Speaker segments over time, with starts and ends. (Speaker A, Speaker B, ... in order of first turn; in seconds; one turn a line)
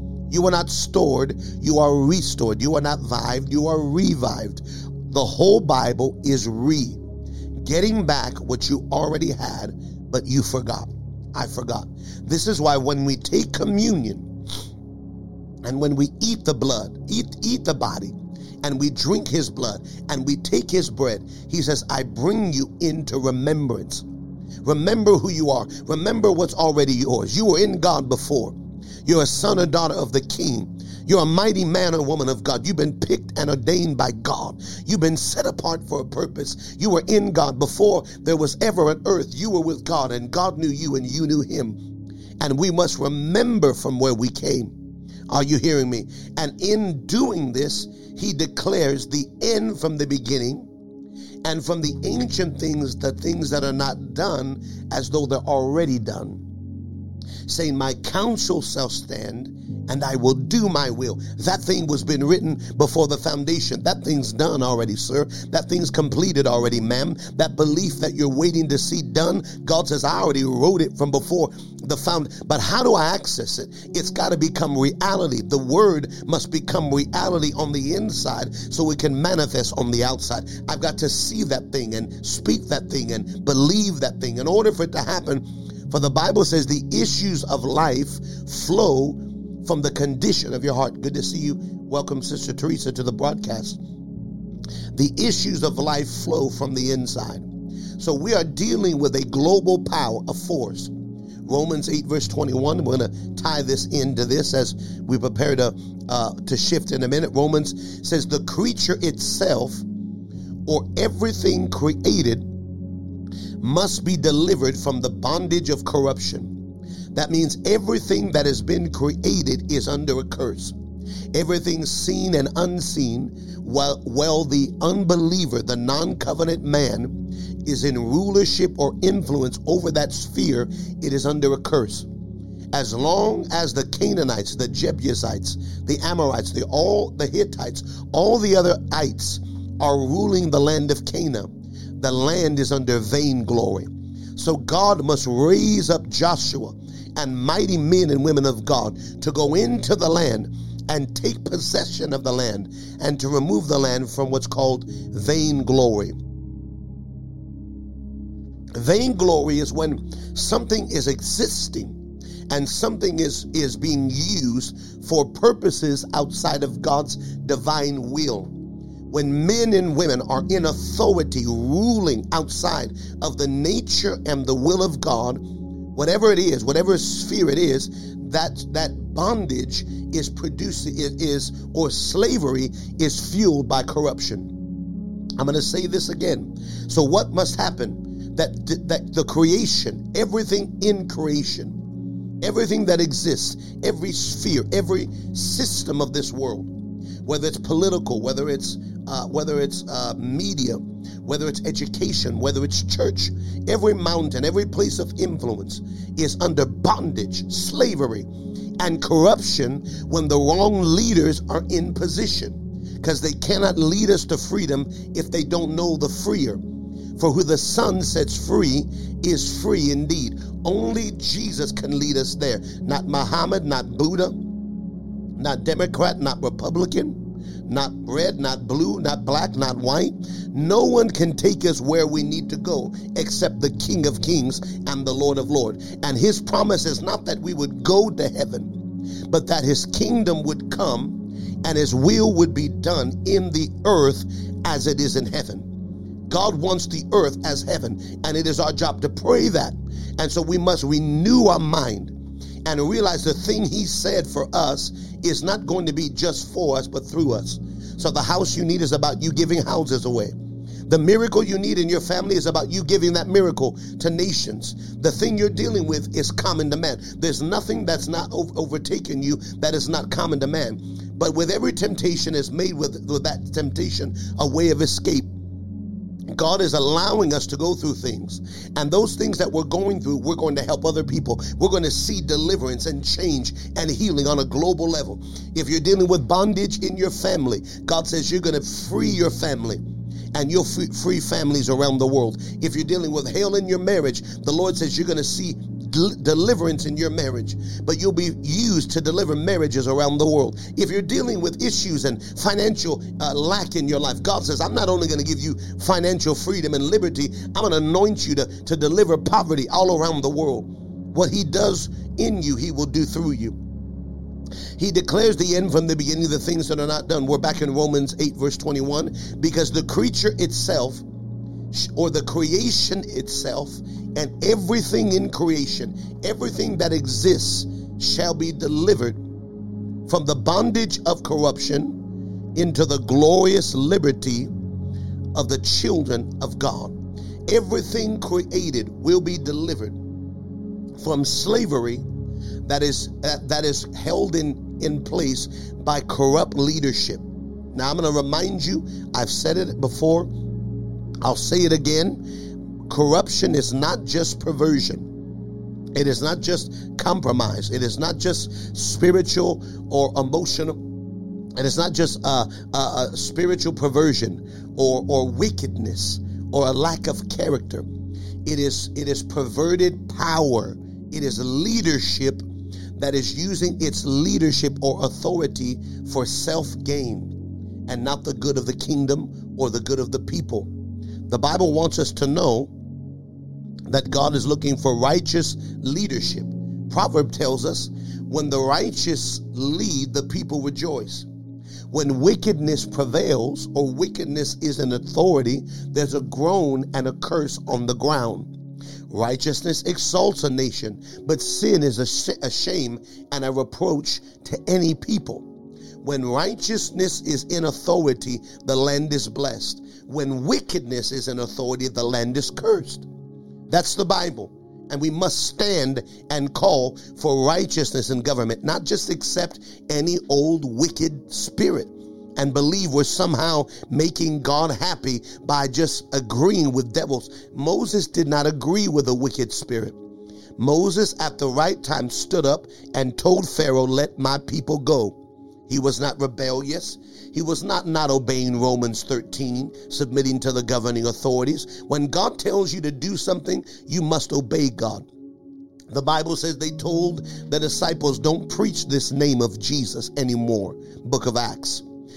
Speaker A: 0.3-7.0
Speaker A: 7.6-14.2
Speaker A: 15.6-24.1
Speaker A: 24.6-41.8
Speaker A: 42.4-44.7
Speaker A: 45.3-50.7
Speaker A: 51.4-56.4
Speaker A: 57.5-93.8
Speaker A: 94.9-100.9
Speaker A: 101.4-109.8
Speaker A: 110.7-112.5
Speaker A: 113.6-116.5
Speaker A: 117.1-120.8
Speaker A: 121.3-132.1
Speaker A: 132.7-156.1
Speaker A: 158.7-162.0
Speaker A: 162.5-168.5
Speaker A: 169.1-184.5
Speaker A: 185.4-191.8
Speaker A: 192.4-196.7
Speaker A: 197.2-216.6
Speaker A: 217.2-224.4
Speaker A: 225.3-238.7
Speaker A: 239.3-245.7
Speaker A: 246.3-260.3
Speaker A: 260.9-275.3
Speaker A: 276.3-289.8
Speaker A: 290.3-313.6
Speaker A: 314.8-321.0
Speaker A: 321.7-329.2
Speaker A: 330.1-332.0
Speaker A: 332.5-334.5
Speaker A: 335.3-340.0
Speaker A: 341.0-342.0
Speaker A: 342.6-350.3
Speaker A: 351.2-352.2
Speaker A: 352.9-355.1
Speaker A: 355.9-360.8
Speaker A: 361.6-367.9
Speaker A: 368.4-372.4
Speaker A: 372.9-377.3
Speaker A: 377.9-380.7
Speaker A: 381.3-382.7
Speaker A: 383.9-391.3
Speaker A: 391.9-398.5
Speaker A: 399.1-405.4
Speaker A: 406.0-413.1
Speaker A: 413.7-429.9
Speaker A: 430.6-445.1
Speaker A: 445.9-451.8